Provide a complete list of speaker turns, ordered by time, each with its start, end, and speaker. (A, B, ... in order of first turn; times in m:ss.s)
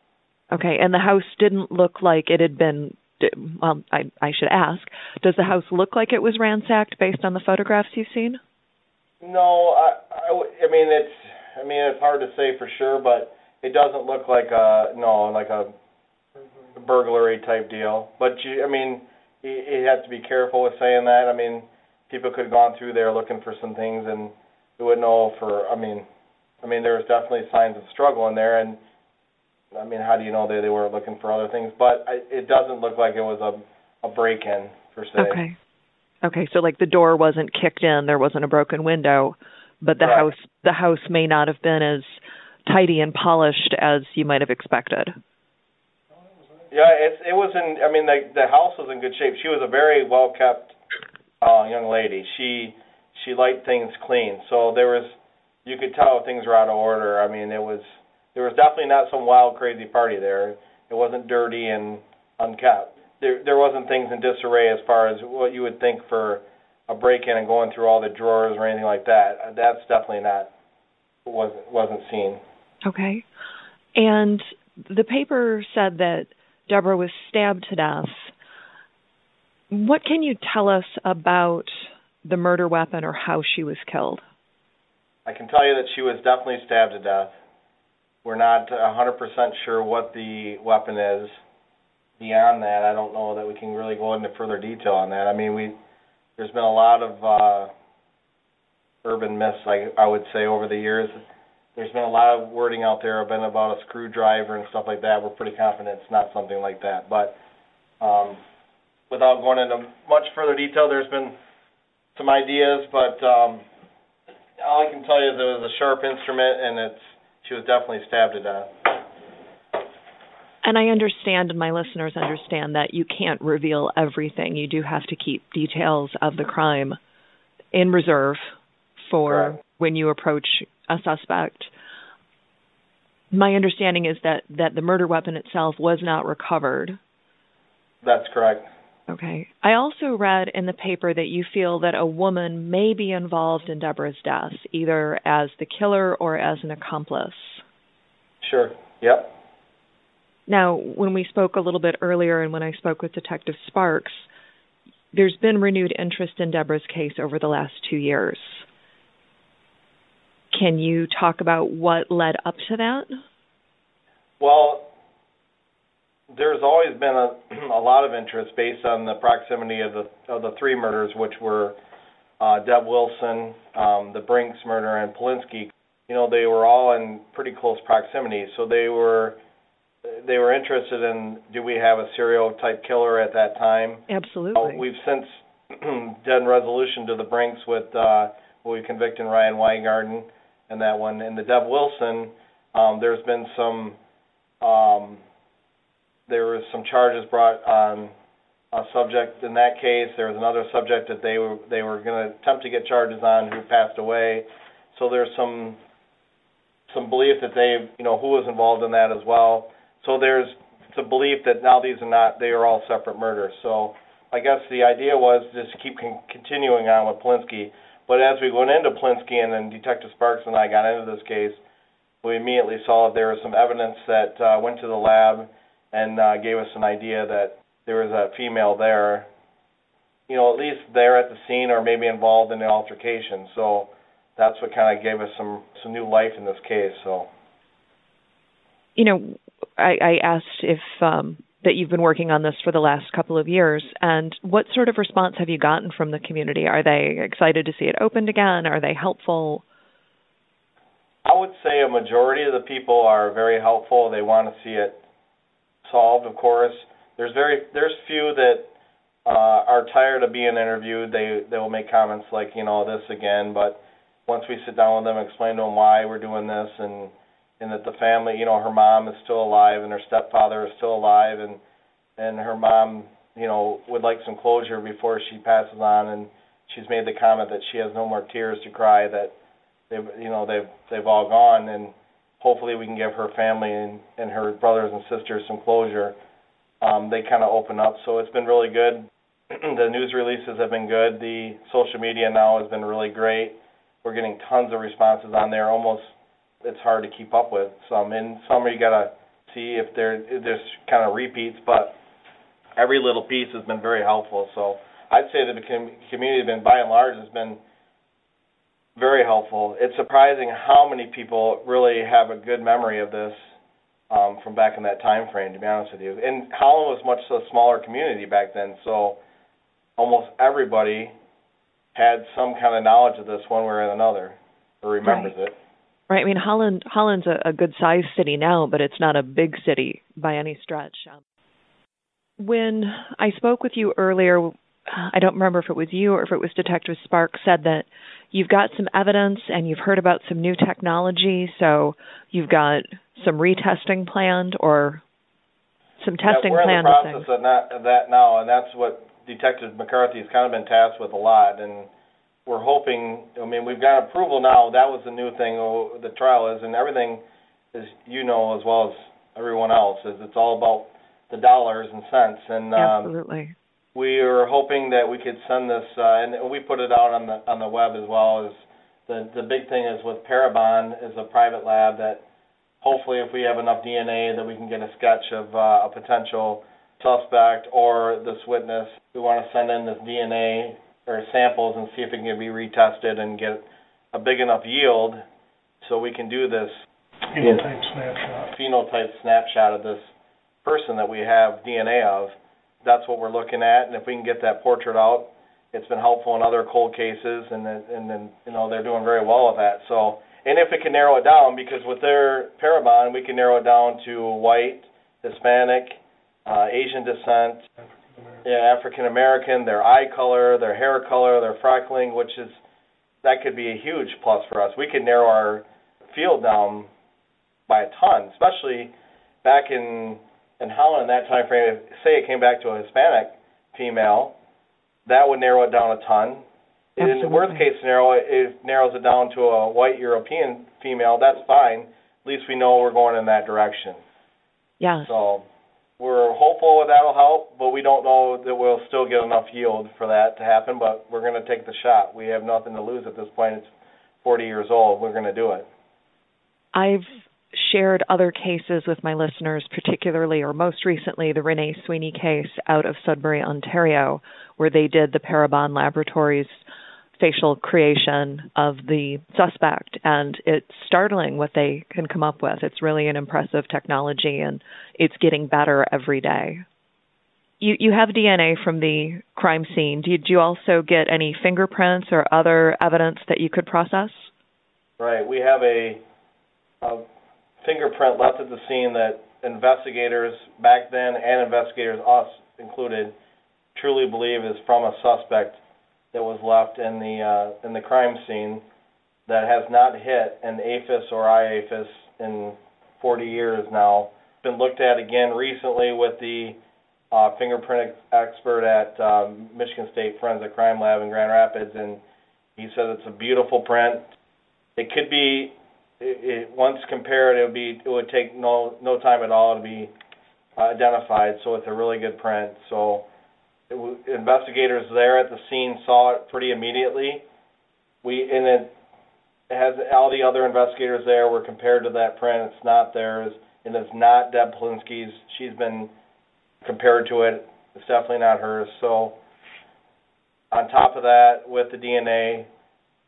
0:00.5-0:08.4 A
0:09.2-0:15.7 B
0:16.4-0:16.7 C
0:16.8-0:26.1 B
0:26.6-0:28.8 B
0:29.7-0:35.4 B
0:35.2-0:35.6 A
0:36.2-0:45.2 A
0:40.0-0:40.3 B
0:46.1-0:46.7 C
0:46.7-0:50.8 B
0:51.4-1:10.5 B
1:11.3-1:12.4 B
1:12.8-1:13.2 A
1:14.0-1:18.3 A
1:19.7-1:21.7 A
1:22.2-1:24.2 A
1:25.3-1:27.3 B
1:28.2-1:31.4 B
1:32.2-1:35.8 B
1:36.4-1:37.7 B
1:39.0-1:41.2 B
1:41.8-1:47.4 B
1:48.0-1:48.4 B
1:49.1-1:51.4 B
1:52.2-1:53.6 B
1:54.6-1:58.9 B
2:00.6-2:07.0 A
2:07.7-2:08.5 A
2:09.1-2:11.7 A
2:09.3-2:09.6 B
2:13.3-2:17.0 A
2:18.0-2:18.7 B
2:19.1-2:27.6 A
2:28.4-2:29.3 B
2:30.5-2:34.2 A
2:35.1-2:38.6 A
2:40.5-2:43.2 A
2:44.4-2:44.9 B
2:46.3-2:51.8 B
2:52.4-2:59.4 B
3:00.0-3:14.0 B
3:04.1-3:04.8 A
3:14.6-3:15.2 B
3:16.3-3:18.1 B
3:18.7-3:25.8 B
3:26.9-3:41.6 B
3:42.2-3:49.3 B
3:50.3-3:57.3 B
3:59.0-4:09.6 A
4:11.2-4:15.0 B
4:15.8-4:18.7 B
4:19.2-4:31.6 B
4:32.2-4:39.3 B
4:39.9-4:46.1 B
4:46.8-4:56.1 B
4:56.6-5:02.0 B
5:02.8-5:07.6 B
5:09.0-5:13.4 B
5:14.1-5:19.2 B
5:20.0-5:21.1 B
5:22.0-5:25.6 B
5:25.0-5:25.3 A
5:26.1-5:31.2 A
5:32.4-5:45.0 A
5:46.0-5:47.3 A
5:46.2-5:51.9 B
5:52.5-5:57.2 B
5:57.7-6:03.1 B
6:02.8-6:03.5 A
6:04.0-6:08.6 B
6:09.1-6:12.2 B
6:12.8-6:25.2 B
6:25.8-6:26.7 B
6:27.3-6:28.5 C
6:28.5-6:30.1 B
6:30.6-6:47.6 B
6:47.8-6:48.4 C
6:48.4-6:52.6 B
6:53.2-6:56.9 B
6:57.7-6:58.9 B
6:59.4-7:04.4 B
7:05.1-7:06.4 B
7:07.0-7:14.0 B
7:07.0-7:07.6 A
7:14.8-7:15.1 A
7:15.0-7:15.5 B
7:16.0-7:23.7 B
7:24.2-7:25.7 B
7:26.7-7:36.6 A
7:37.2-7:46.6 A
7:47.6-7:54.3 A
7:55.0-7:56.0 B
7:57.6-8:03.2 B
8:03.8-8:05.6 B
8:06.1-8:08.6 B
8:09.3-8:16.6 B
8:17.1-8:22.0 B
8:22.6-8:24.0 B
8:24.8-8:29.9 B
8:30.6-8:33.1 B
8:33.7-8:37.2 B
8:38.0-8:38.7 B
8:39.5-8:45.9 B
8:46.6-8:49.2 B
8:50.5-8:52.5 B